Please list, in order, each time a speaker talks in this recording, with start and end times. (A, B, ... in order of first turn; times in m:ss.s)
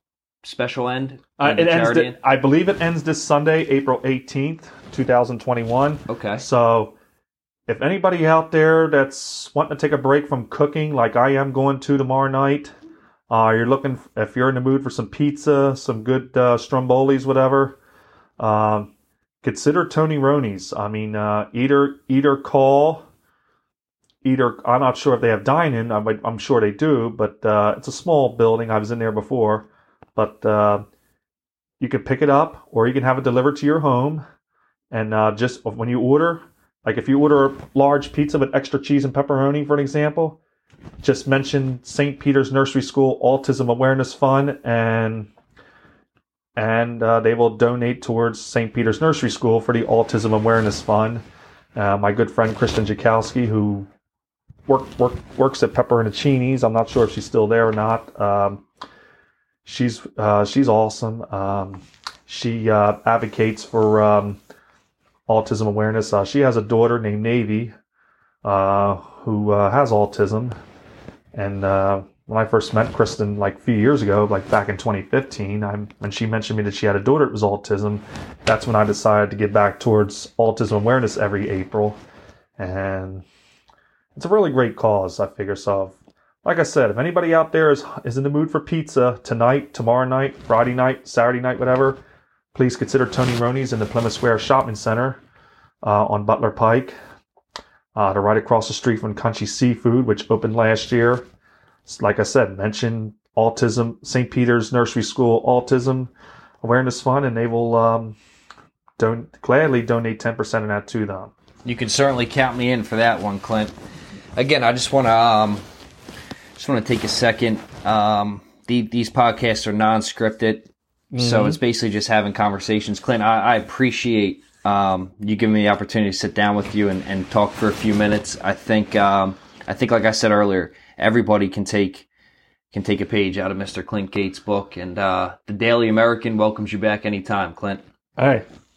0:00.4-0:02.2 A
0:01.4-0:06.9 B
0:06.1-0:06.4 A
0:07.7-0:12.7 B
0:13.3-0:17.8 B
0:18.4-0:18.9 B
0:19.4-0:23.0 B
0:24.2-0:30.8 B
0:31.8-0:34.2 B
0:34.9-0:40.4 B
0:41.0-0:45.3 B
0:46.6-0:51.2 B
0:51.7-0:53.9 B
0:54.7-0:58.6 B
0:59.6-1:04.4 B
1:05.3-1:07.7 B
1:08.4-1:10.5 B
1:11.3-1:22.0 B
1:22.6-1:23.2 B
1:24.1-1:32.0 B
1:32.5-1:35.2 B
1:35.8-1:36.9 B
1:37.9-1:41.2 B
1:41.8-1:46.1 B
1:46.6-1:48.2 B
1:49.0-1:51.3 B
1:51.6-1:53.7 A
1:54.4-1:55.6 A
1:56.6-2:12.0 A
2:01.1-2:01.6 B
2:12.7-2:17.8 A
2:18.2-2:18.4 B